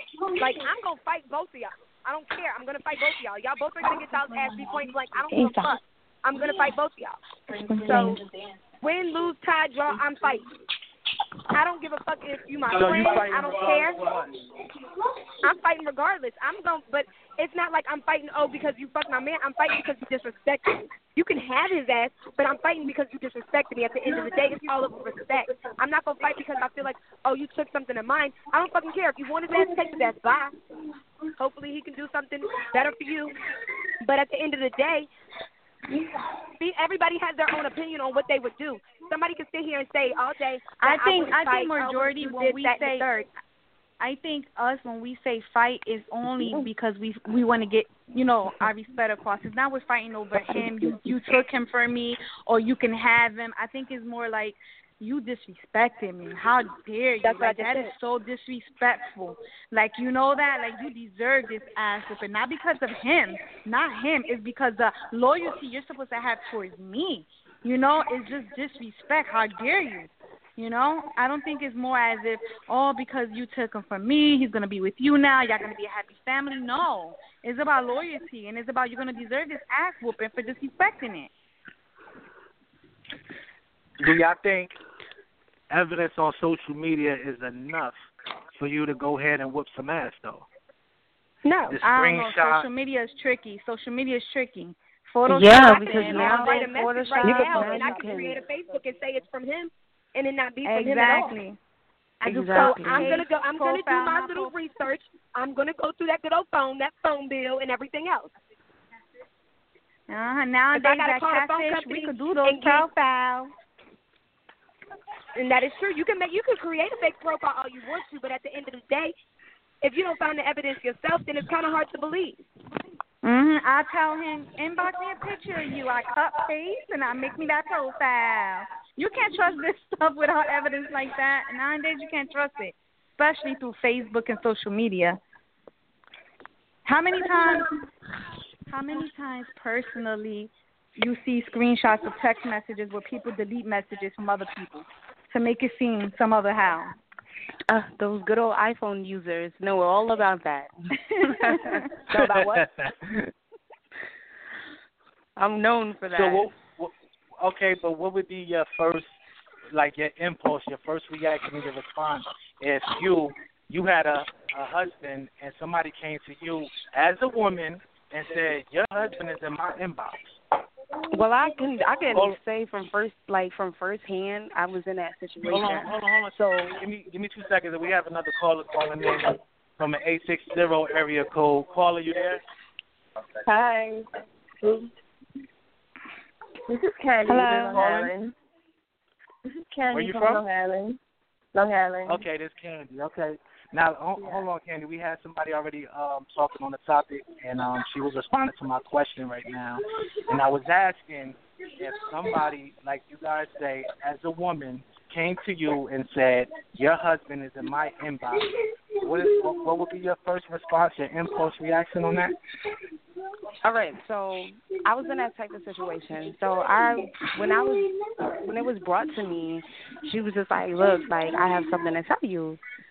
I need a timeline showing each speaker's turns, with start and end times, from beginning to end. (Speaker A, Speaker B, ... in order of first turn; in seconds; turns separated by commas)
Speaker A: 0.4-7.2, Speaker B: 5.3-5.6, Speaker A: 7.7-8.2, Speaker A: 8.8-10.5, Speaker A: 11.5-14.0, Speaker C: 12.7-14.3, Speaker A: 15.4-30.5, Speaker A: 31.4-33.4, Speaker A: 34.0-35.1, Speaker A: 36.6-43.1, Speaker D: 40.8-43.3, Speaker D: 44.0-81.3, Speaker A: 57.2-57.9, Speaker C: 84.0-84.8, Speaker C: 85.7-88.0, Speaker C: 88.6-90.5, Speaker C: 91.7-92.7, Speaker D: 91.8-98.2, Speaker E: 95.3-98.4, Speaker A: 95.8-101.4, Speaker D: 100.6-101.6, Speaker D: 102.2-104.5, Speaker E: 102.2-103.2, Speaker A: 102.5-108.3, Speaker D: 110.1-113.5, Speaker A: 110.8-112.9, Speaker A: 115.3-119.1, Speaker A: 119.8-122.5, Speaker D: 123.2-135.2, Speaker D: 136.8-137.7, Speaker D: 138.7-146.9, Speaker E: 147.7-150.7, Speaker E: 151.2-152.6, Speaker D: 151.3-151.8, Speaker C: 152.1-153.3, Speaker E: 155.4-156.5, Speaker C: 156.2-159.2, Speaker C: 159.7-170.4, Speaker E: 171.1-176.7, Speaker C: 172.1-172.4, Speaker C: 175.4-182.4, Speaker B: 183.4-184.1, Speaker B: 184.6-184.9, Speaker B: 186.7-188.3, Speaker E: 187.3-187.9, Speaker C: 187.7-188.1, Speaker B: 189.7-191.0, Speaker C: 189.9-190.4, Speaker B: 191.5-192.2, Speaker C: 192.1-212.3, Speaker B: 194.2-194.4, Speaker E: 213.6-217.9, Speaker E: 218.4-222.6